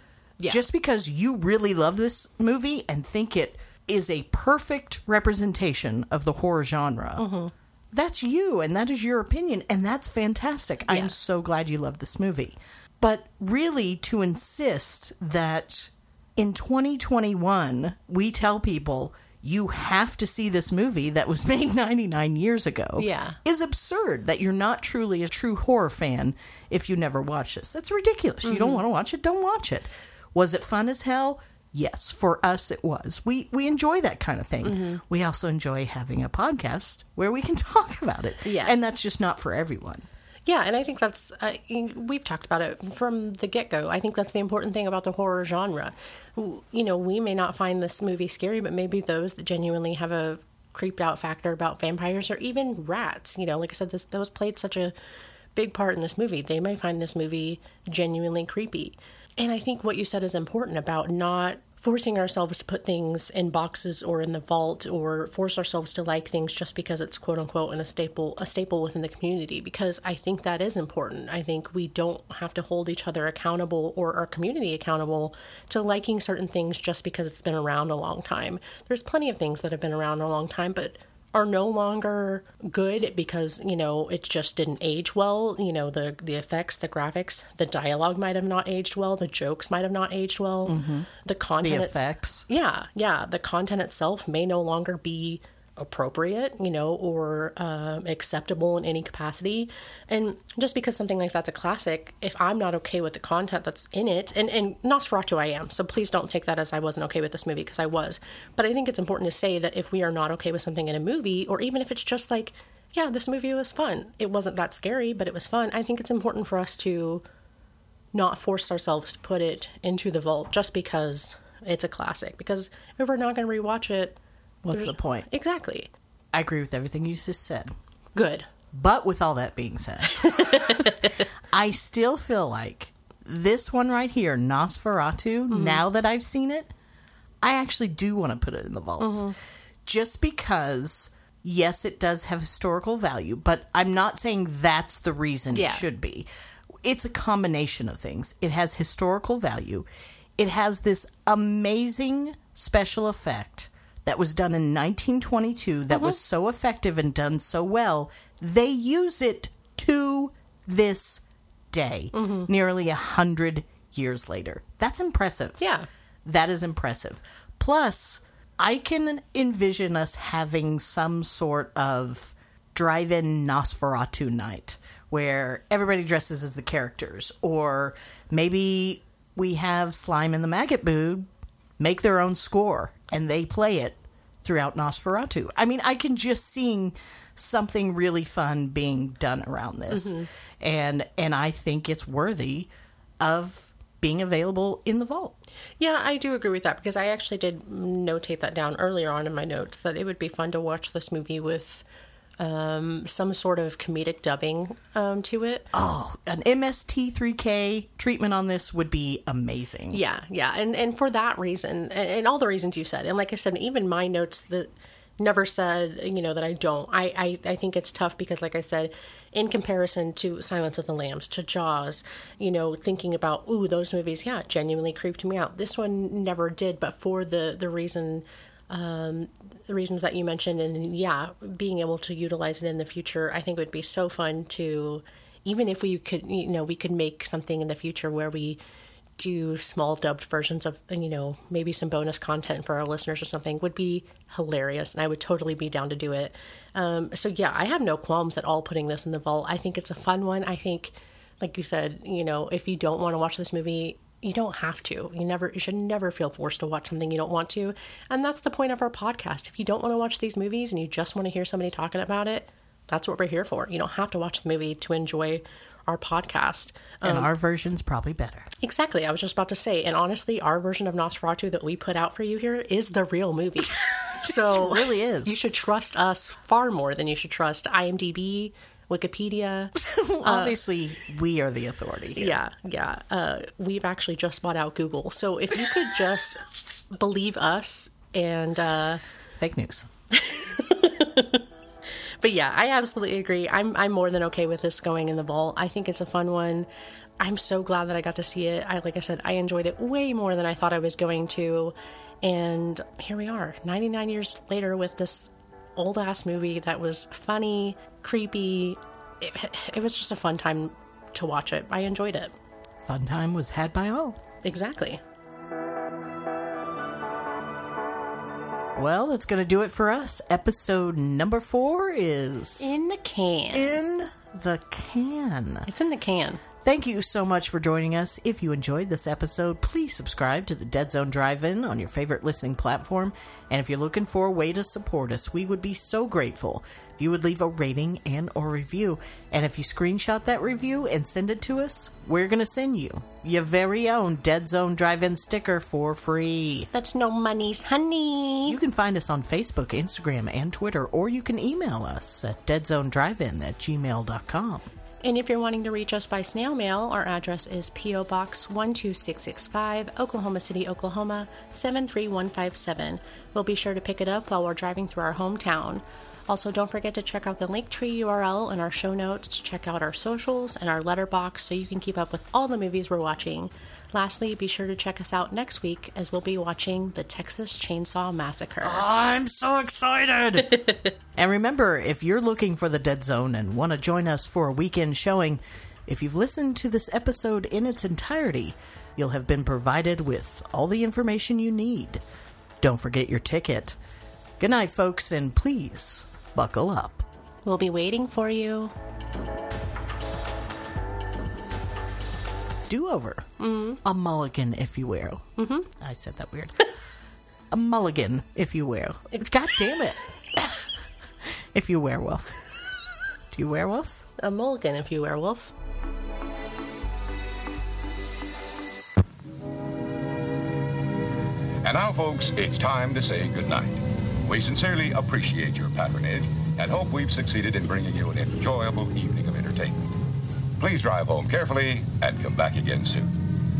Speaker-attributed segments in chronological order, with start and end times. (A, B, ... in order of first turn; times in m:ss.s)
0:00.4-0:00.6 A
0:00.5-0:07.2 B
0:07.2-0:07.5 A
0:07.9-0:40.0 B
0:10.9-0:11.2 A
0:23.0-0:23.4 A
0:28.4-0:28.8 A
0:34.6-0:35.0 A
0:38.4-0:38.8 A
0:40.5-0:54.9 A
0:55.5-1:57.2 A
1:30.6-1:31.1 B
1:31.6-1:32.5 B
1:58.1-2:04.2 A
2:04.6-2:05.2 B
2:04.7-2:05.9 A
2:06.3-2:07.7 B
2:08.1-2:08.5 A
2:08.7-2:16.7 B
2:10.0-2:11.3 A
2:15.5-2:15.8 A
2:17.4-2:19.3 B
2:19.0-2:19.4 A
2:19.8-2:26.3 B
2:25.5-2:25.8 A
2:26.8-2:29.9 B
2:30.4-2:45.6 B
2:35.9-2:36.2 A
2:42.1-2:42.5 A
2:45.6-2:45.9 A
2:46.2-3:01.3 B
3:01.8-3:15.4 B
3:09.9-3:10.3 A
3:15.8-3:21.8 A
3:22.4-3:25.7 A
3:25.7-3:30.0 B
3:29.9-3:58.6 A
3:59.2-4:27.3 A
4:27.0-4:28.5 B
4:28.6-4:40.6 A
4:34.2-4:35.4 B
4:39.8-4:42.4 B
4:42.2-4:49.0 A
4:49.4-4:49.9 B
4:50.1-4:51.4 A
4:52.2-4:56.7 A
4:57.2-5:12.3 A
5:12.8-5:14.2 B
5:14.4-5:15.0 A
5:18.7-5:22.7 B
5:22.6-5:23.8 A
5:23.5-5:25.7 B
5:25.7-5:26.4 A
5:26.6-5:46.7 B
5:46.7-5:48.6 A
5:48.5-5:54.7 B
5:55.0-6:18.8 A
6:18.6-6:32.0 B
6:20.4-6:20.9 A
6:32.6-6:33.8 B
6:34.4-6:37.0 B
6:37.4-6:38.7 A
6:42.7-6:43.3 B
6:43.4-6:43.8 A
6:43.8-6:46.6 B
6:45.4-6:45.7 A
6:47.5-6:52.4 B
6:53.3-6:54.0 B
6:54.2-6:55.5 A
7:01.6-7:09.8 C
7:10.6-7:13.1 C